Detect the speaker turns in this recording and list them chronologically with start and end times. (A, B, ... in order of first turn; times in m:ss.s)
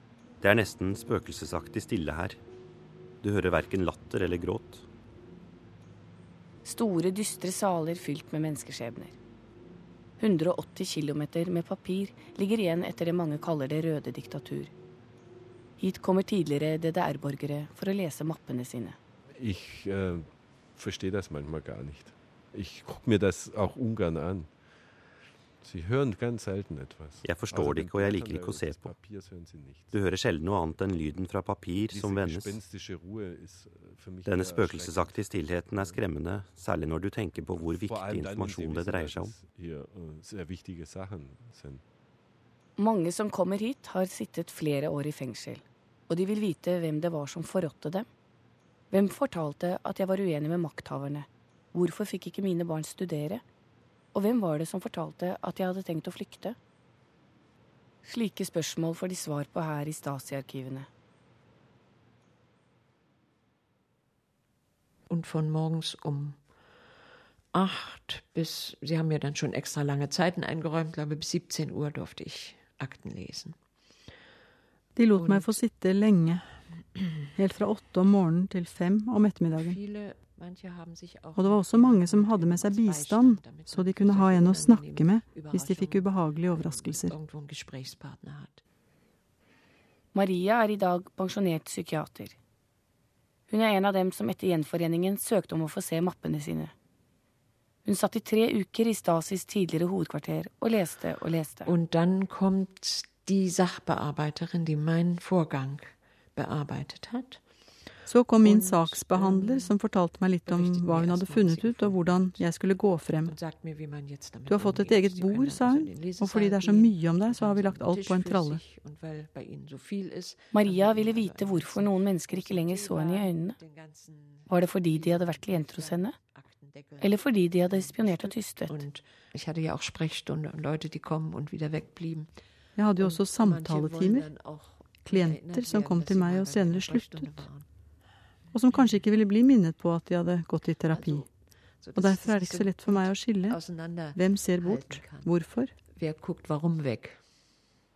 0:00.4-0:02.4 A
0:03.2-0:04.8 A
0:06.6-0:09.2 B
0:10.2-0:14.7 B
0:15.8-0:19.0 B
0:19.4-0:24.5 C
0:25.6-0:29.9 C
0:27.2-0:28.9 A
0:29.9-0:32.6 A
0:31.9-0:36.0 C
0:34.2-0:39.3 A
0:37.7-0:41.8 C
0:42.8-0:48.1 B
0:48.9-0:53.4 B
0:54.1-0:56.6 B
0:58.0-1:00.9 B
1:05.1-1:06.4 D
1:07.5-1:13.6 D
1:15.0-1:16.4 E
1:15.1-1:15.6 D
1:17.4-1:19.8 E
1:19.5-1:28.6 D
1:21.4-1:27.1 E
1:30.1-1:32.4 B
1:33.5-1:36.7 B
1:37.8-1:41.7 B
1:41.6-1:47.4 D
1:48.1-1:53.3 E
1:48.4-1:49.8 D
1:50.4-1:52.4 D
1:53.2-2:12.3 D
1:54.5-1:58.6 E
2:00.5-2:03.6 B
2:04.5-2:06.1 B
2:07.0-2:08.8 B
2:12.8-2:14.3 E
2:13.0-2:17.6 D
2:15.0-2:17.4 E
2:18.5-2:21.2 E
2:18.7-2:19.0 D
2:20.9-2:25.3 D
2:22.0-2:23.6 E
2:24.2-2:25.7 E
2:25.9-2:27.2 D